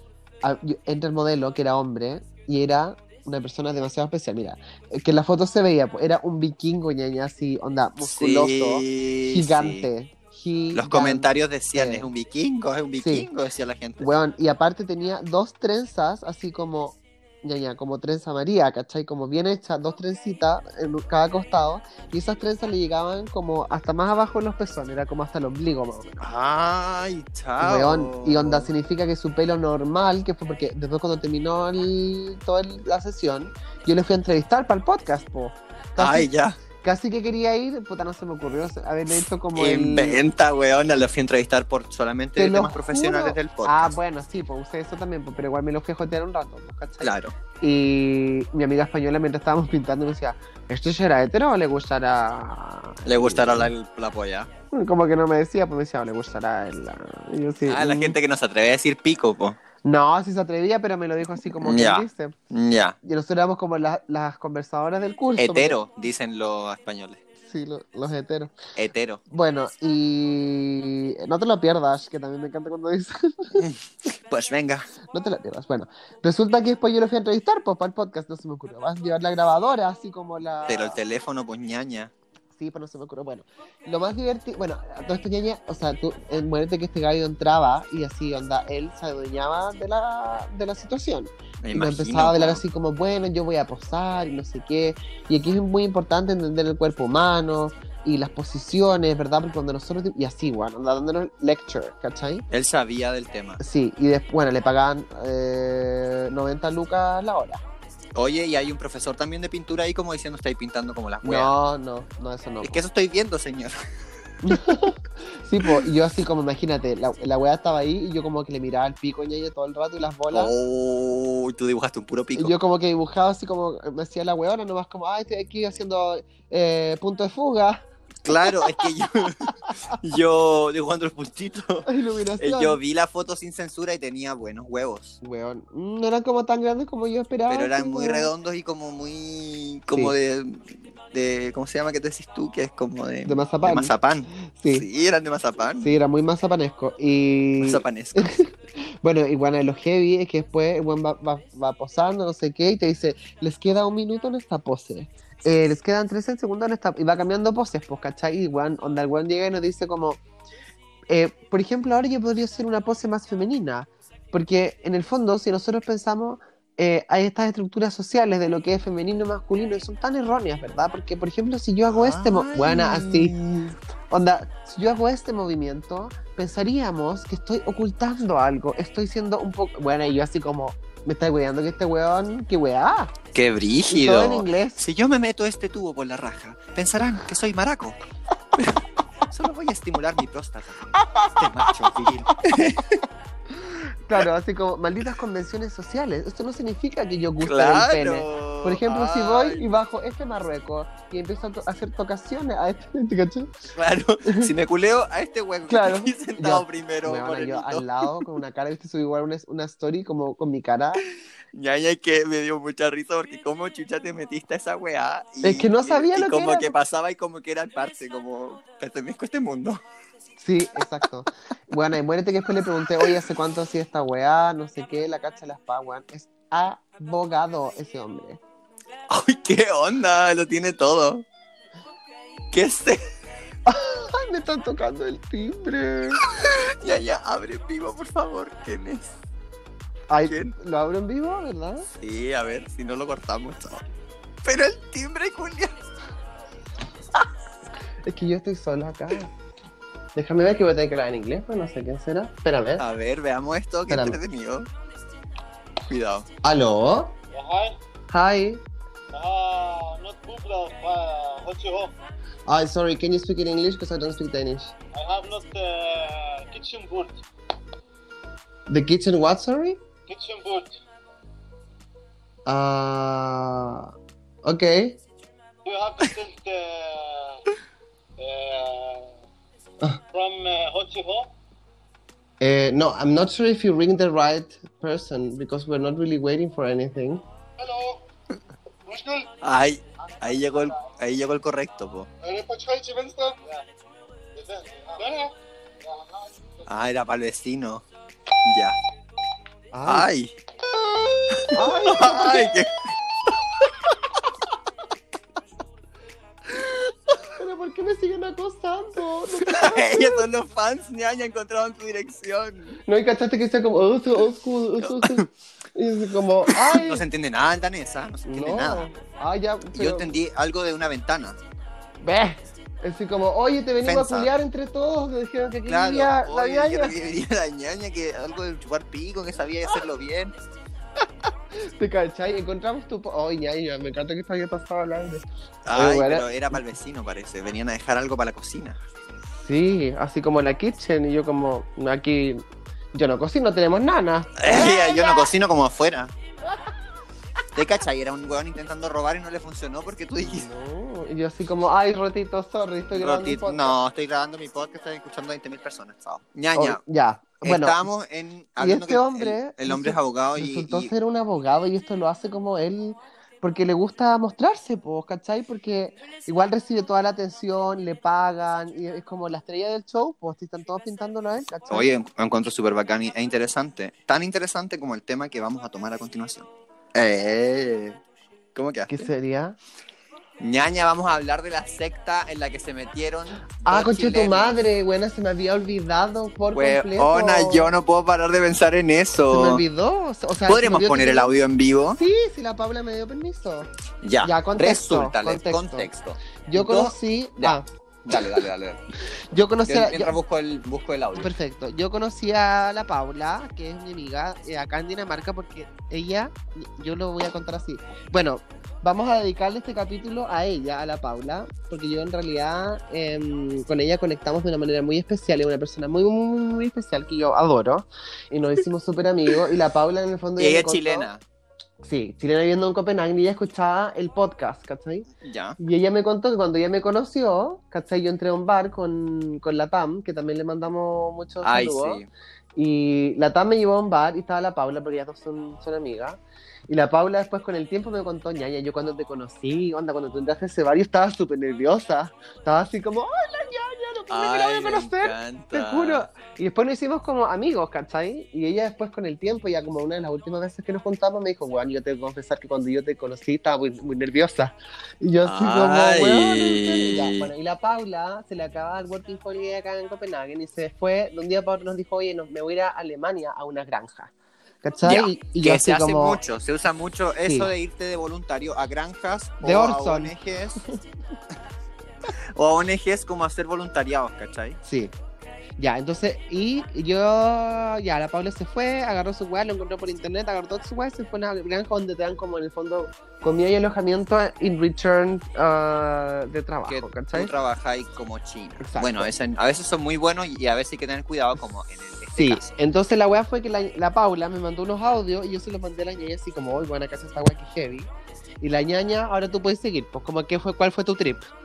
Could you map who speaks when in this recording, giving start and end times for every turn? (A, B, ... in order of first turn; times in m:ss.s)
0:00.4-0:12.1 A
0:08.0-0:09.9 B
0:10.7-0:14.1 B
0:13.0-0:13.3 A
0:14.0-0:26.2 A
0:26.2-0:28.7 B
0:27.6-0:40.2 A
0:36.0-0:36.6 B
0:39.5-0:43.9 B
0:42.4-0:53.7 A
0:47.0-0:47.3 B
0:53.0-0:54.5 B
0:54.7-0:58.2 A
0:57.6-0:59.6 B
0:59.8-1:02.3 A
1:01.3-1:03.0 B
1:03.0-1:05.8 A
1:05.4-1:07.2 B
1:07.4-1:08.5 A
1:08.8-1:09.2 B
1:09.3-1:13.6 A
1:13.6-1:14.9 B
1:15.1-1:21.0 A
1:20.6-1:22.1 B
1:22.5-1:42.4 A
1:31.6-1:32.6 B
1:42.5-1:43.6 B
1:43.6-1:47.6 A
1:48.1-1:51.5 B
1:51.2-1:52.8 A
1:52.6-1:53.8 B
1:54.4-2:00.5 A
2:00.3-2:02.6 B
2:02.4-2:07.8 A
2:08.2-2:15.2 B
2:08.4-2:08.9 A
2:11.8-2:12.8 A
2:15.2-2:18.3 A
2:17.5-2:25.9 B
2:23.2-2:24.8 A
2:25.8-2:40.2 A
2:27.6-2:28.3 B
2:41.1-2:53.4 A
2:51.8-2:53.8 B
2:54.1-3:03.1 A
3:03.3-3:08.0 B
3:03.9-3:04.8 A
3:08.6-3:13.0 B
3:13.6-3:23.5 A
3:17.4-3:19.6 B
3:23.7-3:28.1 B
3:25.7-3:31.0 A
3:31.5-3:39.8 B
3:35.4-3:36.7 A
3:40.4-3:48.4 A
3:42.6-3:43.3 B
3:49.1-3:51.2 B
3:52.5-3:53.0 B
3:53.6-3:56.2 A
3:56.4-3:59.2 B
4:00.1-4:01.9 A
4:00.2-4:00.5 B
4:02.0-4:03.8 B
4:04.4-4:05.8 B
4:08.0-4:09.3 A
4:10.1-4:12.8 A
4:12.8-4:14.7 B
4:13.9-4:14.2 A
4:15.9-4:16.3 B
4:16.4-4:17.2 A
4:17.3-4:17.8 C
4:18.1-4:18.6 A
4:19.1-4:21.9 C
4:22.5-4:24.7 A
4:24.9-4:27.2 C
4:28.7-4:29.8 A
4:30.1-4:30.8 C
4:32.4-4:33.9 A
4:34.4-4:35.0 A
4:35.6-4:37.4 C
4:38.2-4:39.2 C
4:40.1-4:41.3 C
4:42.4-4:47.2 A
4:47.6-4:48.0 C
4:48.8-4:49.3 C
4:49.4-4:52.1 B
4:50.0-4:50.9 C
4:52.2-4:53.6 C
4:54.3-4:56.6 C
4:56.6-4:57.8 B
4:58.4-4:58.8 B
4:59.7-5:00.1 A
4:59.8-5:00.4 B
5:01.3-5:02.9 B
5:01.4-5:02.6 A
5:06.5-5:10.3 A
5:09.4-5:12.8 B
5:12.8-5:17.0 A
5:14.8-5:15.3 B
5:16.5-5:18.9 B
5:18.2-5:20.2 A
5:19.7-5:21.4 B
5:22.0-5:27.0 A
5:23.8-5:24.3 B
5:25.7-5:30.3 B
5:31.5-5:36.6 A
5:35.6-5:38.8 B
5:39.4-5:45.2 A
5:44.4-5:46.1 B
5:47.5-5:50.5 B
5:50.2-5:53.8 A
5:52.9-5:56.8 B
5:56.5-5:57.8 A
5:57.4-6:00.9 B
5:58.6-6:11.9 A
6:11.7-6:18.0 B
6:18.5-6:19.1 B
6:18.9-6:19.6 A
6:20.4-6:24.6 B
6:23.6-6:27.7 A
6:26.5-6:29.6 B
6:29.3-6:31.3 A
6:30.4-6:32.0 B
6:31.9-6:33.7 A
6:34.0-6:38.8 B
6:34.2-6:35.9 A
6:36.5-6:38.4 A
6:39.3-6:40.2 A
6:39.6-6:41.3 B
6:41.2-7:01.1 A
7:00.4-7:01.2 B
7:01.8-7:05.1 A
7:05.2-7:05.6 B
7:05.6-7:12.0 A
7:11.4-7:12.1 B
7:12.6-7:44.1 A
7:24.1-7:26.1 B
7:35.2-7:37.3 B
7:44.6-7:46.2 A
7:44.8-7:50.6 B
7:49.4-7:50.1 A
7:52.1-7:54.6 B
7:54.6-7:54.9 A
7:55.6-8:07.3 A
8:06.7-8:12.6 B
8:08.6-8:09.1 A
8:12.2-8:21.3 A